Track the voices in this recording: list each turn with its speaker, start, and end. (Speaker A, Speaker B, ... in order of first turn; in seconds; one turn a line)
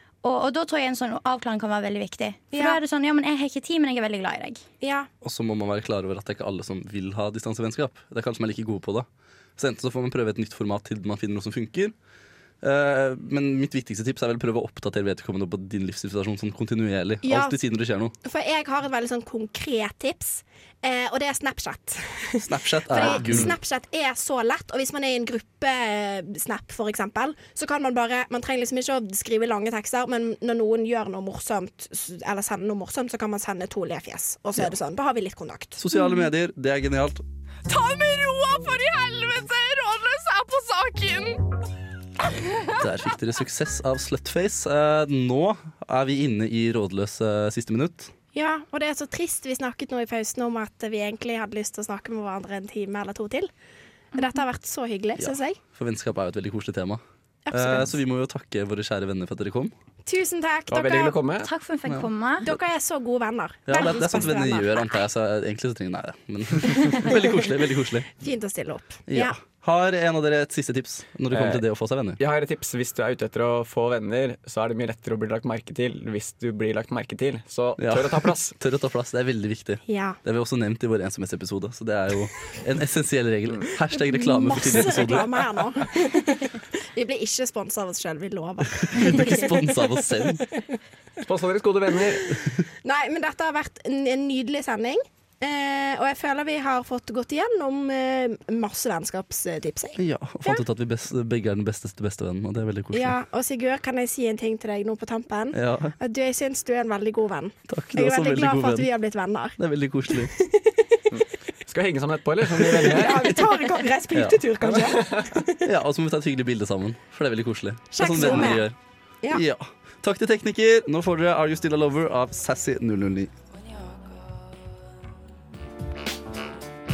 Speaker A: 0.2-4.6
Speaker B: 2.5-2.8
Speaker B: 4.8-5.1
Speaker C: 5.2-11.9
Speaker C: 12.6-18.1
Speaker B: 17.2-17.6
Speaker B: 18.2-35.8
Speaker C: 22.4-23.5
Speaker C: 35.8-37.2
Speaker A: 36.0-36.2
Speaker D: 37.7-41.4
Speaker C: 42.8-48.1
Speaker B: 48.3-53.5
Speaker B: 54.1-55.6
Speaker C: 55.2-57.0
Speaker B: 57.5-58.0
Speaker C: 57.5-59.7
Speaker B: 60.0-61.2
Speaker E: 60.7-61.5
Speaker A: 61.4-62.5
Speaker B: 62.4-64.8
Speaker C: 63.7-68.1
Speaker B: 68.2-69.3
Speaker C: 69.1-72.2
Speaker E: 71.3-71.6
Speaker E: 72.2-78.5
Speaker C: 77.8-85.5
Speaker B: 79.9-80.2
Speaker B: 84.1-90.4
Speaker C: 88.9-90.5
Speaker E: 91.2-92.3
Speaker B: 92.4-100.6
Speaker C: 100.0-103.2
Speaker B: 102.9-109.6
Speaker C: 105.5-106.0
Speaker C: 107.7-108.9
Speaker C: 109.6-110.3
Speaker B: 110.1-111.0
Speaker E: 111.1-113.3
Speaker B: 112.8-115.6
Speaker C: 114.1-114.9
Speaker E: 114.9-115.3
Speaker C: 115.6-118.8
Speaker B: 117.9-118.7
Speaker C: 119.3-123.3